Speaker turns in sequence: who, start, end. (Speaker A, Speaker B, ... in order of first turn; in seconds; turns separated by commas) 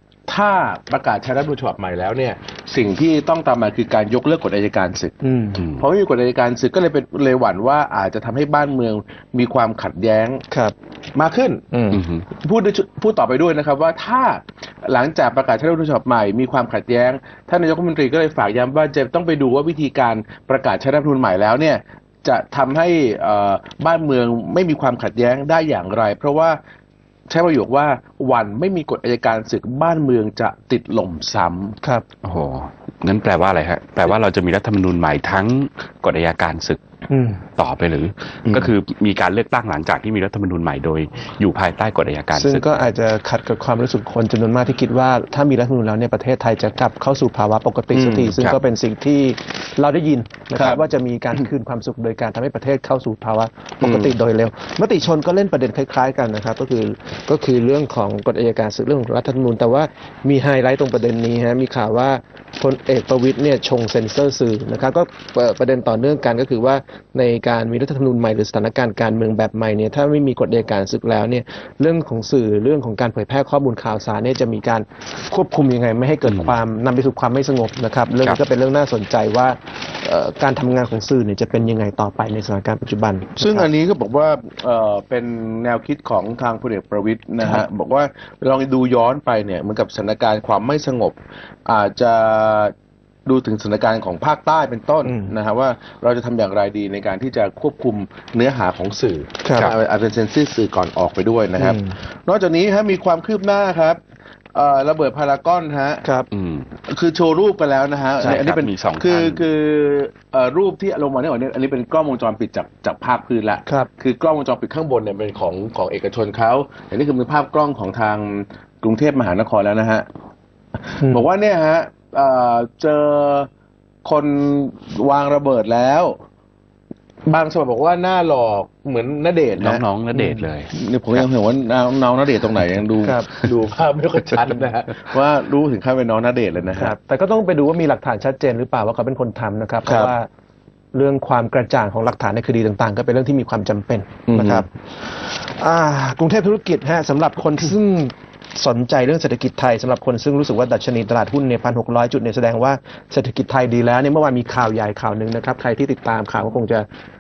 Speaker A: 0.3-10.5, Speaker B: 5.2-5.6, Speaker B: 10.5-10.8, Speaker A: 11.2-11.7, Speaker B: 11.7-12.0, Speaker C: 11.9-12.2, Speaker A: 12.3-26.6, Speaker A: 27.3-31.8, Speaker C: 32.2-36.8, Speaker B: 37.1-37.4, Speaker C: 37.6-42.7, Speaker A: 38.5-38.7, Speaker B: 42.3-83.7, Speaker A: 47.9-48.4, Speaker A: 50.5-50.8, Speaker A: 53.8-54.1, Speaker C: 76.2-76.5, Speaker A: 83.4-92.7, Speaker A: 93.3-104.0, Speaker B: 95.0-95.3, Speaker B: 99.5-99.7, Speaker B: 101.6-102.0, Speaker A: 104.5-106.1, Speaker C: 106.3-106.7, Speaker A: 106.9-120.1, Speaker C: 108.2-109.4, Speaker A: 120.9-123.5, Speaker A: 124.0-126.2, Speaker A: 127.3-129.8, Speaker C: 129.6-131.2, Speaker B: 130.2-130.4, Speaker A: 130.7-136.9, Speaker B: 133.0-133.3, Speaker B: 136.8-140.3, Speaker A: 139.9-140.1, Speaker B: 140.9-156.9, Speaker A: 144.3-144.7